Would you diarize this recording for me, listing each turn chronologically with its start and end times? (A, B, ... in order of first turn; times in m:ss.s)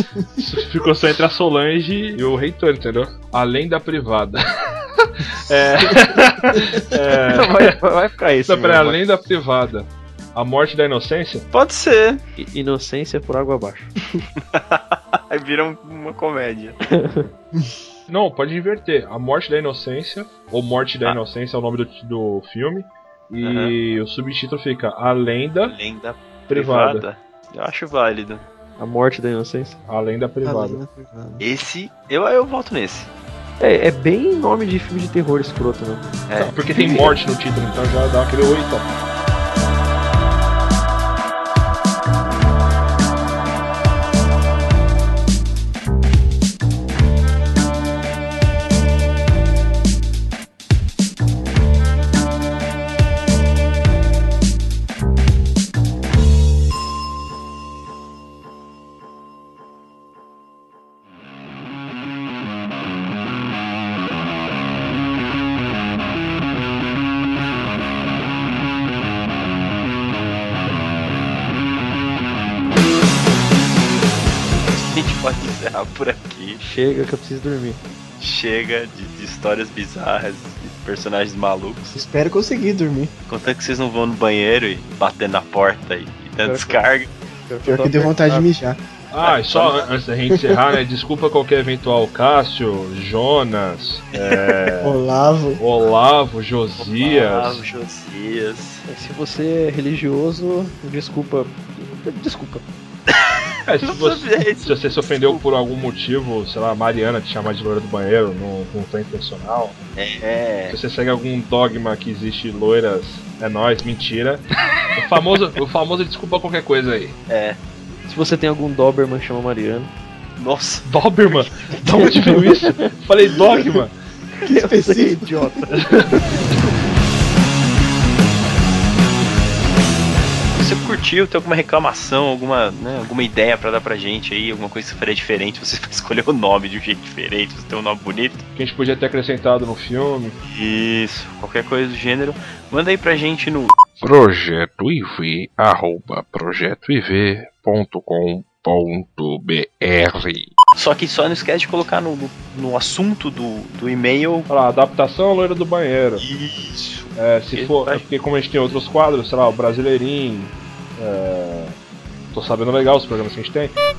0:00.4-0:04.4 A
0:05.2-0:07.8 A
0:06.7-0:09.0 B
0:08.5-0:11.4 A
0:11.5-0:12.2 C
0:12.4-0:13.9 B
0:14.4-0:16.8 C
0:16.9-0:17.3 B
0:18.1-0:25.7 A
0:23.4-0:23.8 C
0:25.7-0:28.4 C
0:26.5-0:27.0 A
0:28.8-0:29.8 B
0:29.9-0:30.8 A
0:30.4-0:31.4 D
0:31.4-0:33.1 C
0:33.6-0:36.2 B
0:36.3-0:36.6 C
0:36.4-0:38.9 A
0:36.7-0:37.2 B
1:14.6-1:16.6 C
1:16.6-1:17.8 B
1:18.2-1:21.9 C
1:21.9-1:23.1 D
1:23.3-1:27.1 C
1:26.4-1:26.8 B
1:27.5-1:28.5 B
1:27.6-1:28.8 D
1:29.1-1:35.0 A
1:29.2-1:29.9 C
1:34.2-1:34.5 C
1:34.8-1:35.6 D
1:35.6-1:37.6 A
1:36.8-1:38.8 C
1:38.9-1:42.6 B
1:43.6-1:49.8 A
1:43.8-1:45.4 C
1:50.0-1:50.8 C
1:50.7-1:54.4 A
1:55.0-1:57.2 A
1:57.3-1:57.6 C
1:58.1-1:59.9 B
2:00.4-2:00.9 C
2:00.8-2:03.9 A
2:01.9-2:02.6 B
2:04.4-2:06.2 B
2:04.4-2:05.6 D
2:10.5-2:18.4 C
2:18.6-2:20.4 A
2:20.4-2:23.8 C
2:24.0-2:30.5 E
2:30.8-2:34.5 C
2:34.5-2:36.3 A
2:36.2-2:38.0 C
2:37.2-2:41.7 A
2:42.3-2:43.7 A